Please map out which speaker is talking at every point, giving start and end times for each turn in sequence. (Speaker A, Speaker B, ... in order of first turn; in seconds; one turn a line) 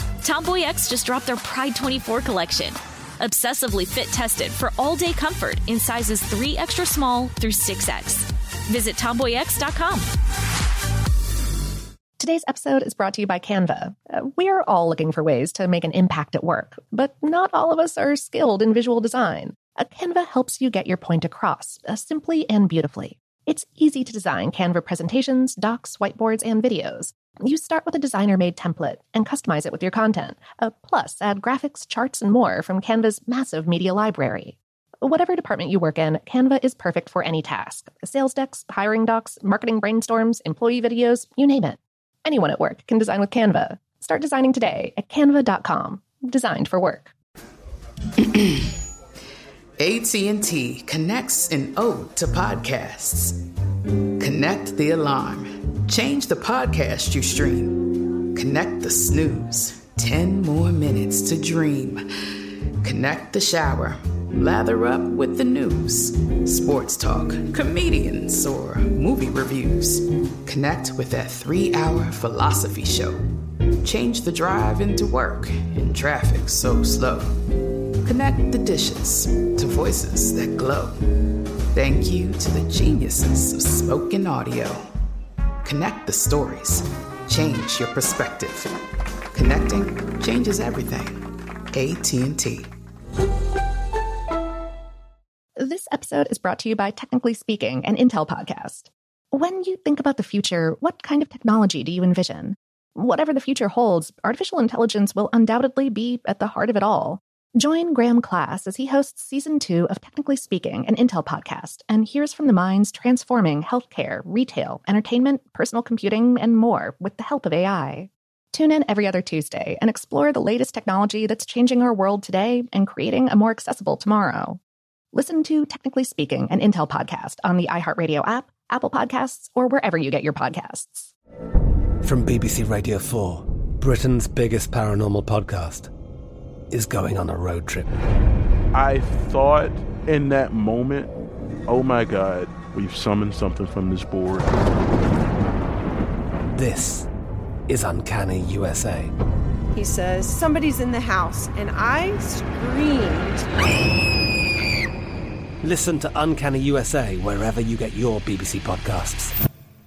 Speaker A: 0.2-10.1
Speaker B: 12.2-47.1
Speaker C: 48.2-48.7
Speaker C: 49.8-53.3
Speaker C: 54.2-62.0
Speaker C: 62.8-73.2
Speaker C: 73.8-77.3
Speaker C: 78.0-80.9
Speaker C: 81.7-84.8
Speaker C: 85.6-88.7
Speaker C: 89.3-91.2
Speaker C: 91.7-92.7
Speaker B: 95.6-124.6
Speaker B: 125.1-131.1
Speaker D: 133.1-134.7
Speaker E: 138.7-141.1
Speaker E: 141.7-144.5
Speaker D: 147.7-148.9
Speaker F: 149.7-153.5
Speaker D: 157.8-159.2